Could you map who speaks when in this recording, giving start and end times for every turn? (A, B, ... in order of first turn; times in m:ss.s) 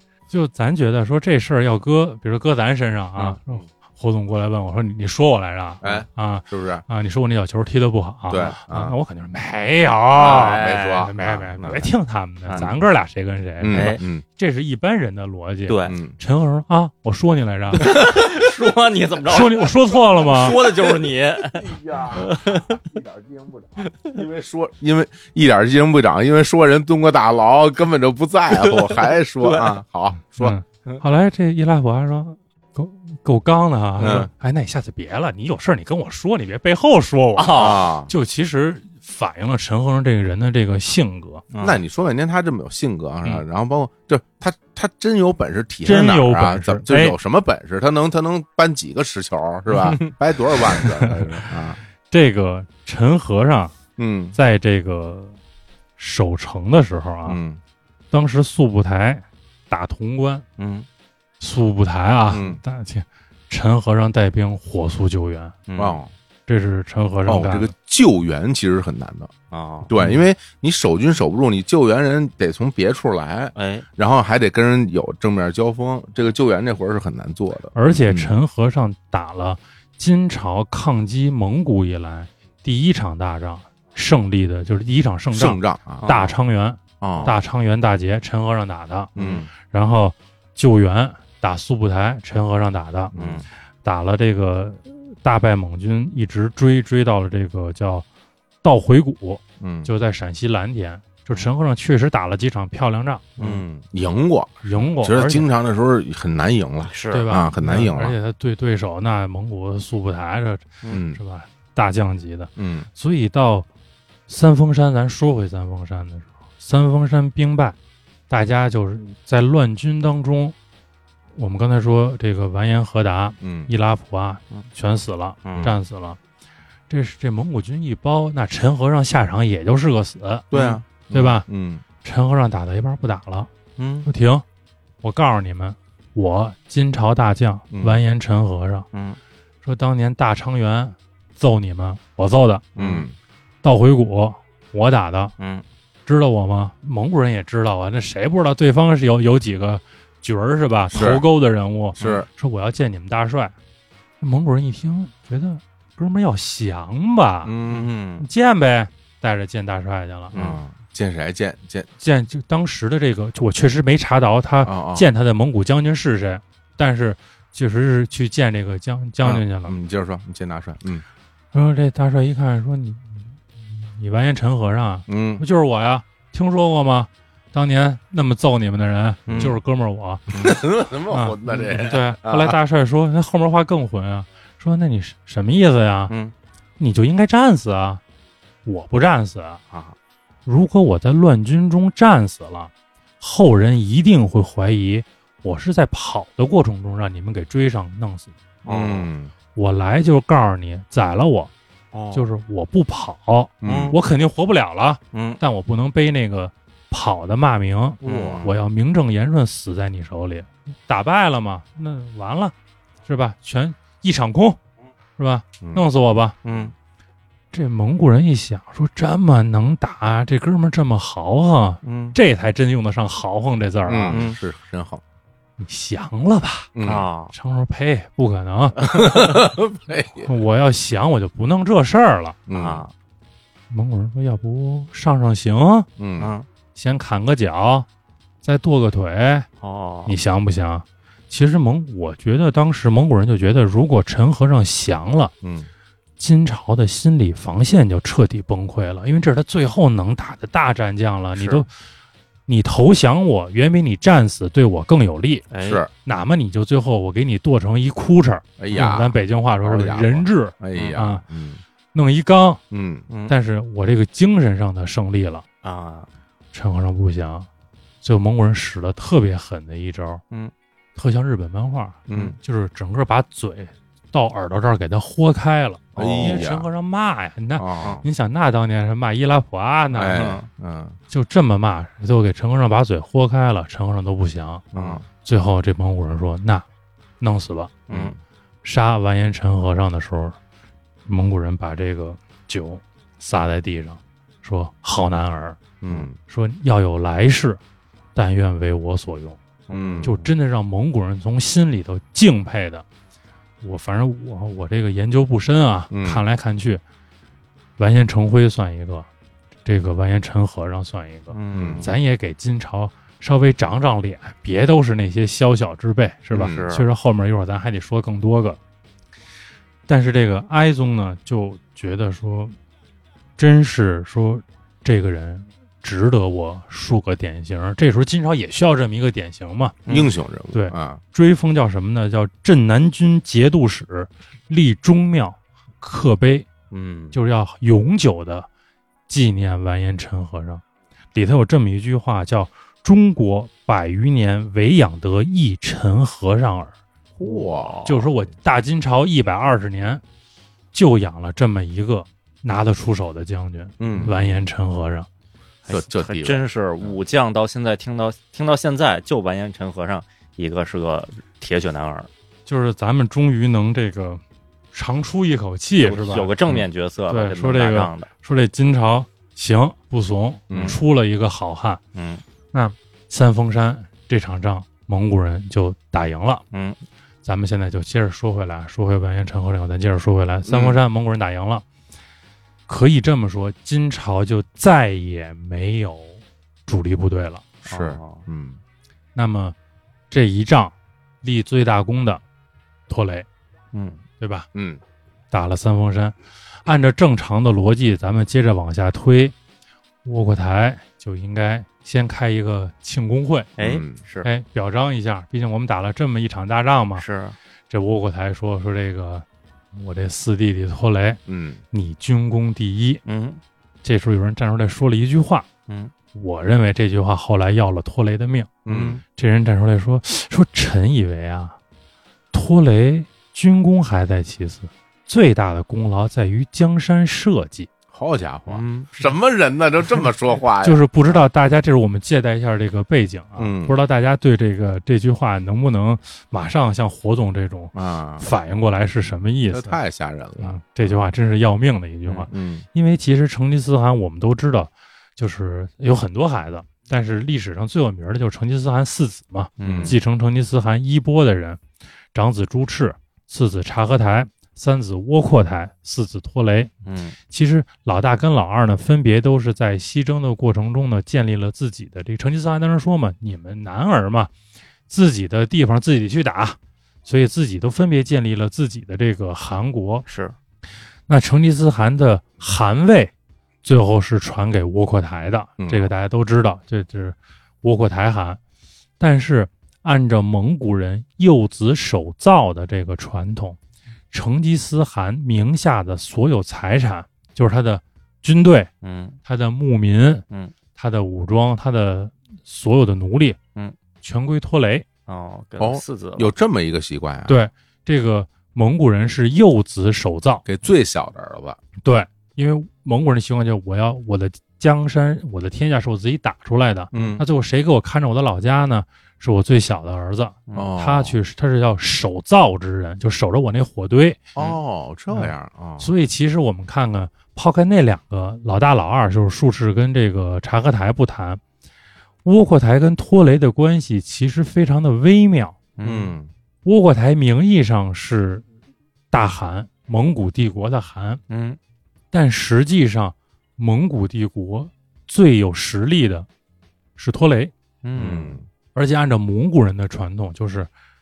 0:00.3-0:17.9 A
0:03.2-0:03.6 B
0:05.8-0:06.8 B
0:08.3-0:09.0 B
0:08.3-0:08.6 C
0:10.2-0:11.8 B
0:10.2-0:11.8 C
0:13.6-0:14.2 B
0:13.7-0:14.0 C
0:15.7-0:16.0 C
0:15.8-0:16.2 B
0:17.8-0:22.8 C
0:19.3-0:20.6 A
0:21.5-0:30.6 B
0:23.8-0:24.1 C
0:28.5-0:29.8 C
0:30.4-0:41.4 A
0:34.0-0:34.3 B
0:37.4-0:37.9 C
0:37.5-0:38.1 B
0:41.5-0:41.8 C
0:41.6-0:51.8 B
0:45.8-0:47.2 A
0:50.9-0:51.2 A
0:52.1-0:53.8 A
0:54.0-0:54.4 B
0:54.3-0:55.4 A
0:56.0-0:57.4 A
0:57.2-0:57.6 B
0:58.1-1:00.4 A
1:00.6-1:00.9 C
1:01.4-1:05.6 A
1:02.3-1:02.6 B
1:05.7-1:06.0 C
1:05.8-1:06.1 B
1:06.5-1:07.7 A
1:07.3-1:09.3 B
1:09.5-1:09.9 C
1:09.8-1:18.3 B
1:13.6-1:13.9 C
1:17.7-1:33.1 A
1:25.3-1:26.1 B
1:26.0-1:26.4 C
1:27.0-1:27.3 B
1:27.1-1:27.4 C
1:29.2-1:29.5 B
1:29.2-1:29.4 C
1:33.1-1:33.4 B
1:33.1-1:33.4 C
1:33.8-1:38.0 A
1:38.6-1:43.3 A
1:39.6-1:39.9 B
1:43.4-1:43.6 C
1:43.4-1:48.2 B
1:44.6-1:45.5 A
1:46.9-1:47.3 C
1:47.1-1:53.7 A
1:50.9-1:51.2 B
1:52.6-1:52.9 B
1:54.3-1:57.8 A
1:58.3-2:00.6 A
2:01.3-2:06.2 A
2:03.4-2:03.7 B
2:05.4-2:05.7 C
2:06.9-2:11.4 A
2:10.5-2:11.8 B
2:12.0-2:13.5 A
2:13.8-2:14.1 C
2:14.0-2:14.4 A
2:15.0-2:18.9 A
2:17.7-2:18.0 B
2:18.9-2:19.2 C
2:19.6-2:22.6 A
2:22.7-2:23.0 C
2:22.8-2:23.1 B
2:23.6-2:25.3 A
2:25.4-2:25.6 C
2:26.0-2:33.5 A
2:30.9-2:31.2 B
2:32.0-2:32.3 B
2:34.2-2:37.5 A
2:37.4-2:37.9 B
2:37.7-2:38.2 C
2:38.2-2:40.4 A
2:40.3-2:40.6 C
2:40.3-2:41.9 B
2:42.0-2:49.7 A
2:44.6-2:45.0 B
2:49.2-2:51.0 B
2:51.5-3:00.3 A
2:55.1-2:55.4 B
2:59.3-2:59.6 C
2:59.3-2:59.6 B
3:00.3-3:02.6 B
3:01.1-3:06.1 A
3:06.8-3:08.0 A
3:08.6-3:09.6 A
3:10.4-3:18.3 A
3:18.6-3:19.1 C
3:18.7-3:19.3 B
3:19.6-3:21.5 A
3:21.9-3:22.2 C
3:22.1-3:32.5 A
3:23.6-3:24.0 B
3:23.6-3:24.0 C
3:25.1-3:25.4 C
3:28.0-3:28.5 C
3:33.0-3:34.6 A
3:35.2-3:36.4 A
3:36.4-3:36.7 C
3:37.5-3:44.2 A
3:41.8-3:42.2 C
3:43.8-3:45.0 B
3:44.1-3:44.4 C
3:45.6-3:46.7 A
3:46.7-3:47.1 B
3:46.8-3:47.3 C
3:47.3-3:49.0 A
3:48.8-3:50.3 B
3:50.2-3:52.4 A
3:52.5-3:52.8 B
3:52.5-3:52.9 C
3:53.7-3:55.9 A
3:56.0-3:56.3 B
3:56.2-3:56.5 C
3:56.7-3:57.9 A
3:58.4-3:59.5 A
3:59.6-4:00.1 C
4:00.0-4:05.3 A
4:05.4-4:05.7 B
4:06.2-4:11.7 A
4:11.4-4:11.6 C
4:12.5-4:15.4 A
4:15.5-4:15.8 C
4:15.6-4:15.9 B
4:16.0-4:21.2 A
4:18.6-4:21.6 B
4:20.7-4:21.0 C
4:21.9-4:22.6 A
4:22.7-4:23.0 B
4:23.1-4:23.3 C
4:23.3-4:25.4 A
4:25.6-4:26.1 C
4:26.5-4:27.5 A
4:28.0-4:30.2 A
4:31.0-4:40.4 A
4:32.1-4:32.4 B
4:36.0-4:36.4 C
4:36.0-4:36.7 B
4:37.6-4:38.0 B
4:39.9-4:41.0 B
4:40.1-4:40.5 C
4:41.1-4:44.6 A
4:44.7-4:45.0 B
4:44.7-4:45.0 C
4:45.2-4:46.6 A
4:47.2-4:47.7 A
4:47.9-4:48.2 C
4:47.9-4:48.2 B
4:48.6-4:50.4 A
4:51.1-4:55.6 A
4:55.8-4:56.1 B
4:56.3-4:57.6 A
4:58.1-4:59.4 A
4:59.7-5:00.3 C
4:59.7-5:00.2 B
5:00.0-5:02.8 A
5:03.6-5:06.8 A
5:05.9-5:06.2 B
5:07.8-5:09.1 A
5:09.6-5:18.6 A
5:11.3-5:11.9 C
5:11.5-5:11.9 B
5:16.3-5:16.7 B
5:16.3-5:16.8 C
5:19.9-5:22.6 A
5:23.4-5:29.8 A
5:29.9-5:31.0 B
5:30.5-5:36.5 A
5:36.7-5:37.1 C
5:37.1-5:38.5 A
5:39.1-5:40.6 A
5:41.1-5:46.7 A
5:47.2-5:47.8 B
5:47.2-5:48.0 C
5:47.9-5:50.0 A
5:50.7-5:55.1 A
5:53.8-5:54.2 B
5:55.6-6:02.1 C
5:55.7-5:57.0 B
6:02.4-6:04.2 A
6:04.7-6:06.3 A
6:05.8-6:08.1 C
6:07.1-6:11.8 A
6:10.5-6:10.8 B
6:10.5-6:10.8 C
6:12.0-6:12.2 C
6:12.5-6:16.4 A
6:16.5-6:16.8 C
6:17.2-6:21.6 A
6:20.4-6:20.8 B
6:22.7-6:27.4 A
6:27.6-6:28.6 B
6:27.7-6:28.2 C
6:29.1-6:29.6 A
6:30.1-6:32.2 A
6:32.9-6:33.3 A
6:33.7-6:34.0 C
6:34.2-6:34.5 A
6:34.6-6:34.8 B
6:35.3-6:39.3 A
6:40.0-6:43.5 A
6:43.6-6:44.0 B
6:43.6-6:44.3 C
6:44.2-6:47.0 A
6:47.0-6:47.4 C
6:47.7-6:51.2 A
6:51.3-6:51.6 B
6:51.7-6:53.0 A
6:53.0-6:53.4 C
6:53.8-6:55.4 A
6:56.1-6:58.6 A
6:58.7-6:59.0 B
6:58.7-6:59.0 C
6:59.1-7:01.6 A
7:02.3-7:07.7 A
7:07.9-7:11.2 B
7:08.5-7:09.1 C
7:10.6-7:19.8 A
7:13.4-7:13.8 B
7:17.7-7:18.3 B
7:19.5-7:21.0 B
7:20.4-7:31.6 A
7:22.1-7:22.6 B
7:29.6-7:30.0 C
7:29.6-7:30.0 B
7:32.1-7:36.7 A
7:36.8-7:37.2 C
7:37.3-7:44.3 A
7:44.9-7:50.1 A
7:50.1-7:50.3 C
7:51.1-7:53.1 A
7:53.6-7:58.4 A
7:55.6-7:55.9 B
7:59.0-8:03.6 A
8:04.1-8:08.7 A
8:08.8-8:09.2 C
8:09.2-8:10.2 A
8:10.8-8:13.4 A
8:14.0-8:14.9 A
8:15.1-8:16.3 C
8:15.6-8:17.4 B
8:17.3-8:20.4 A
8:20.4-8:21.6 B
8:21.8-8:34.2 A
8:26.9-8:27.2 B
8:30.5-8:31.2 B
8:34.3-8:35.9 B
8:35.1-8:41.4 A
8:42.2-8:45.6 A
8:45.8-8:46.2 C
8:45.8-8:46.3 B
8:46.6-8:48.4 A
8:49.1-8:51.2 A
8:51.3-8:51.6 C
8:52.1-8:56.3 A
8:57.0-8:57.5 A
8:57.8-8:58.4 C
8:57.9-8:58.4 B
8:58.7-9:00.7 A